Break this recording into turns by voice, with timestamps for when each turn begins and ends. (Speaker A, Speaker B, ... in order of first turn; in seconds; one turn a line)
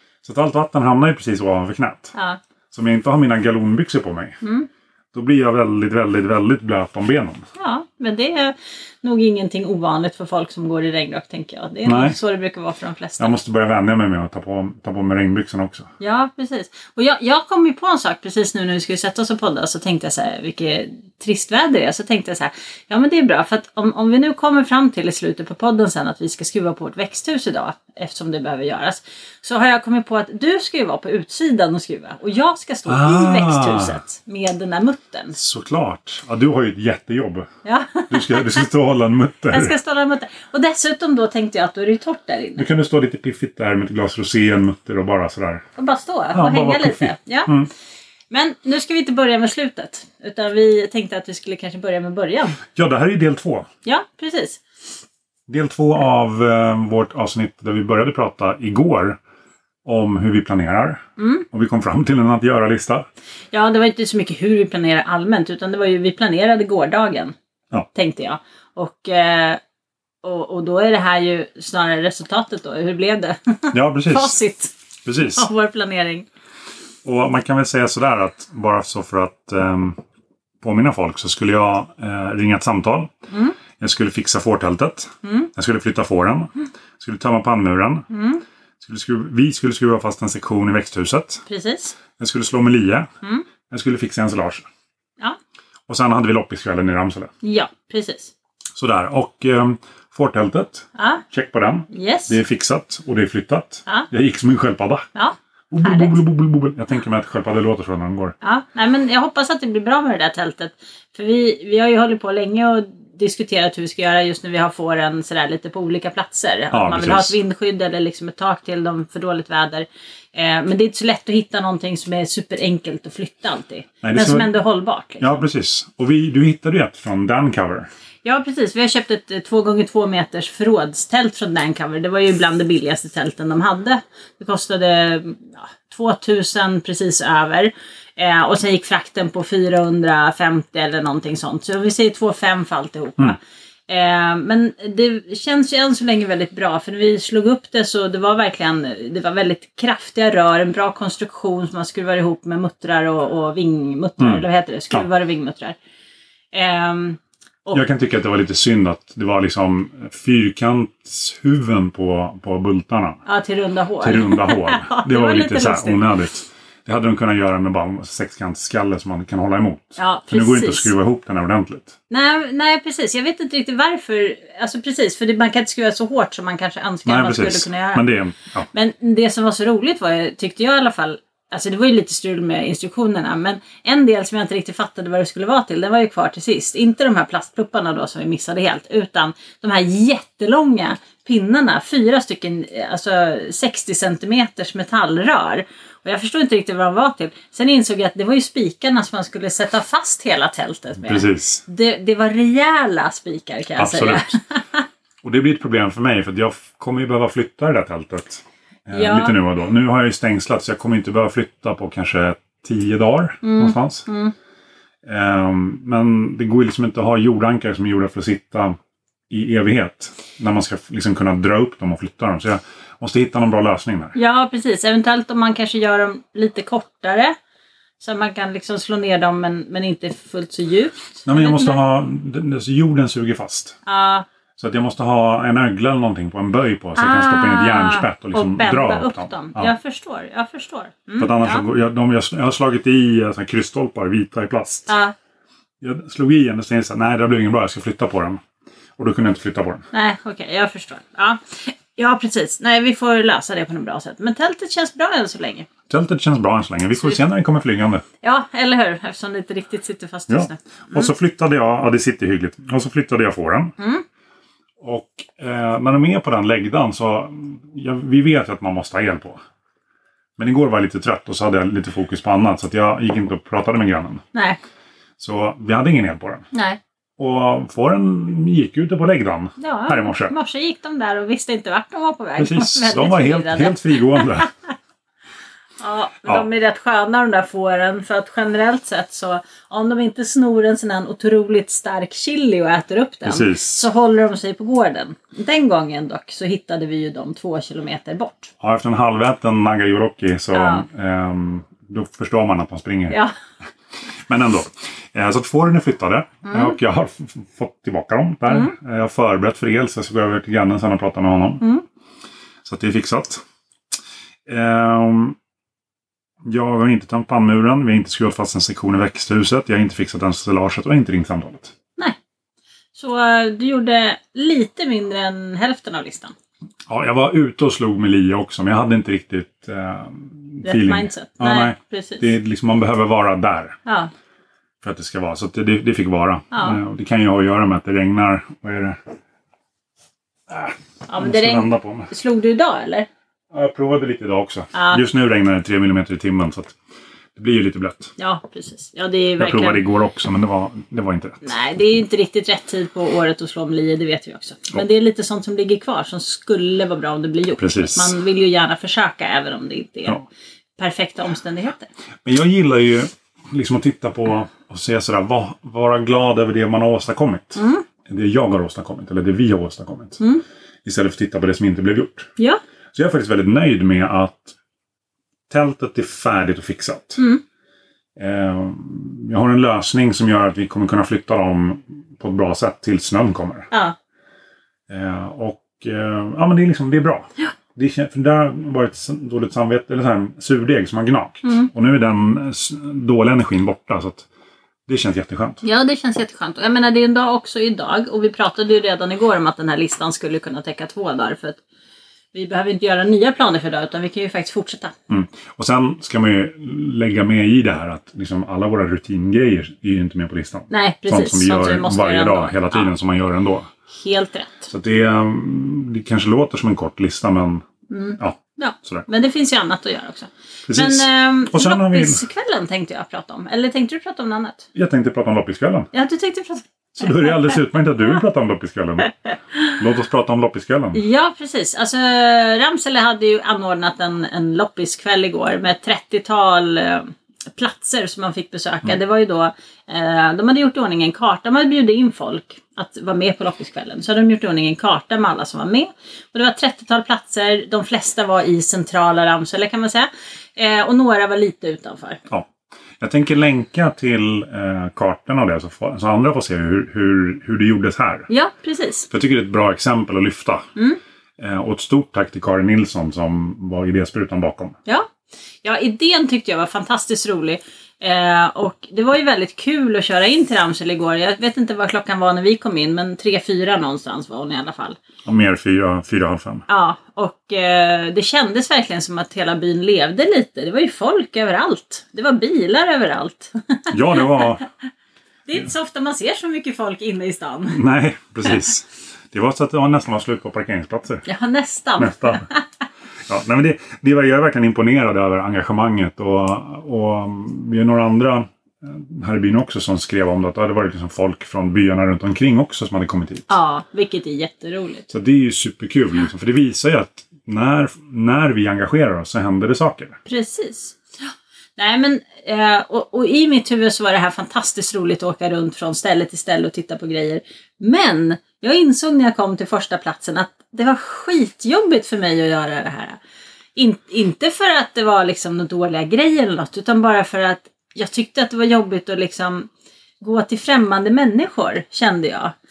Speaker A: 0.2-2.1
Speaker B: 2.1-2.4
Speaker A: 2.7-4.4
Speaker B: 4.4-4.7
Speaker A: 5.1-7.4
Speaker B: 7.6-13.3
Speaker A: 11.8-12.2
Speaker A: 13.2-15.9
Speaker B: 16.0-35.4
Speaker A: 32.9-34.0
Speaker A: 35.3-37.5
Speaker B: 37.6-38.6
Speaker A: 38.1-39.7
Speaker B: 39.5-42.6
Speaker A: 42.6-45.6
Speaker B: 45.8-47.5
Speaker A: 46.3-47.7
Speaker B: 48.3-52.6
Speaker A: 52.7-53.7
Speaker B: 53.8-54.6
Speaker A: 55.5-59.2
Speaker A: 59.8-63.1
Speaker B: 61.2-61.4
Speaker B: 63.5-67.3
Speaker B: 67.9-69.6
Speaker B: 70.2-74.7
Speaker A: 73.7-74.4
Speaker A: 75.0-75.5
Speaker B: 75.3-76.2
Speaker A: 77.0-80.0
Speaker A: 80.6-83.1
Speaker B: 83.3-83.5
Speaker A: 83.8-88.1
Speaker B: 85.2-85.5
Speaker B: 88.1-88.4
Speaker A: 88.8-91.4
Speaker B: 91.5-92.0
Speaker A: 92.2-93.1
Speaker A: 93.7-94.7
Speaker A: 95.9-97.3
Speaker B: 97.4-98.3
Speaker A: 98.7-105.0
Speaker B: 101.0-101.2
Speaker B: 101.9-102.4
Speaker B: 105.1-106.2
Speaker A: 105.7-108.3
Speaker B: 108.4-125.4
Speaker A: 116.7-117.3
Speaker A: 124.0-124.5
Speaker A: 125.2-127.9
Speaker B: 128.2-155.8
Speaker A: 154.2-155.1
Speaker B: 156.5-157.8
Speaker A: 157.7-163.2
Speaker B: 163.2-166.1
Speaker A: 164.0-171.9
Speaker B: 170.0-170.9
Speaker B: 172.1-178.0
Speaker A: 177.1-178.7
Speaker B: 178.7-204.8
Speaker A: 201.0-201.6
Speaker A: 203.8-204.3
Speaker A: 205.2-214.1
Speaker B: 208.9-209.3
Speaker B: 213.4-214.3
Speaker A: 215.0-218.8
Speaker A: 219.3-224.2
Speaker B: 224.1-227.3
Speaker B: 228.0-231.8
Speaker A: 231.2-233.8
Speaker B: 233.8-234.2
Speaker A: 234.6-239.7
Speaker B: 236.9-241.6
Speaker A: 241.2-244.9
Speaker B: 244.9-245.1
Speaker A: 245.8-248.4
Speaker A: 249.0-249.8
Speaker B: 249.9-255.7
Speaker A: 255.9-258.0
Speaker B: 258.2-261.1
Speaker A: 260.3-263.7
Speaker B: 263.8-264.0
Speaker A: 264.8-269.4
Speaker A: 270.4-274.2
Speaker B: 274.3-274.6
Speaker A: 275.2-276.4
Speaker B: 276.5-276.8
Speaker A: 277.2-280.3
Speaker B: 279.6-284.5
Speaker A: 282.4-284.5
Speaker B: 285.8-298.5
Speaker A: 293.2-293.9
Speaker A: 298.6-303.2
Speaker B: 300.5-300.9
Speaker B: 303.1-303.3
Speaker A: 304.2-311.6
Speaker B: 306.4-306.7
Speaker A: 312.6-313.4
Speaker A: 314.5-315.4
Speaker A: 316.4-321.7
Speaker B: 322.9-326.3
Speaker A: 326.9-333.8
Speaker B: 330.6-332.3
Speaker B: 333.9-334.1
Speaker A: 334.8-339.0
Speaker B: 336.5-336.8
Speaker A: 340.5-342.1
Speaker B: 341.1-343.1
Speaker A: 343.5-346.8
Speaker B: 344.7-345.0
Speaker A: 347.4-348.1
Speaker B: 348.2-349.8
Speaker A: 349.4-351.4
Speaker B: 351.4-360.2
Speaker A: 357.6-358.1
Speaker B: 360.8-361.9
Speaker A: 362.2-370.2
Speaker B: 367.6-367.8
Speaker A: 370.8-372.3
Speaker A: 372.9-374.6
Speaker A: 375.5-377.2
Speaker A: 378.2-383.7
Speaker A: 384.9-394.3
Speaker A: 394.9-395.6
Speaker B: 395.6-401.6
Speaker B: 402.3-404.9
Speaker A: 405.1-413.7
Speaker B: 410.7-412.9
Speaker B: 413.9-414.7
Speaker A: 414.7-417.6
Speaker B: 417.9-424.7
Speaker A: 418.2-419.1
Speaker A: 420.7-422.2
Speaker A: 424.7-425.9
Speaker B: 425.9-427.6
Speaker A: 426.9-429.1
Speaker A: 429.7-431.0
Speaker B: 430.9-452.2
Speaker A: 452.3-458.3
Speaker B: 458.3-459.1
Speaker A: 459.1-460.7
Speaker A: 461.4-464.8
Speaker B: 465.6-475.0
Speaker A: 475.2-476.6
Speaker B: 476.7-484.5
Speaker A: 483.9-484.6
Speaker B: 485.5-487.8
Speaker A: 487.7-491.2
Speaker B: 491.2-492.6
Speaker A: 492.0-492.5
Speaker A: 493.3-503.5
Speaker B: 503.5-505.1
Speaker A: 505.1-510.2
Speaker B: 510.2-511.0
Speaker B: 511.8-523.2
Speaker B: 523.8-529.7
Speaker B: 530.2-532.5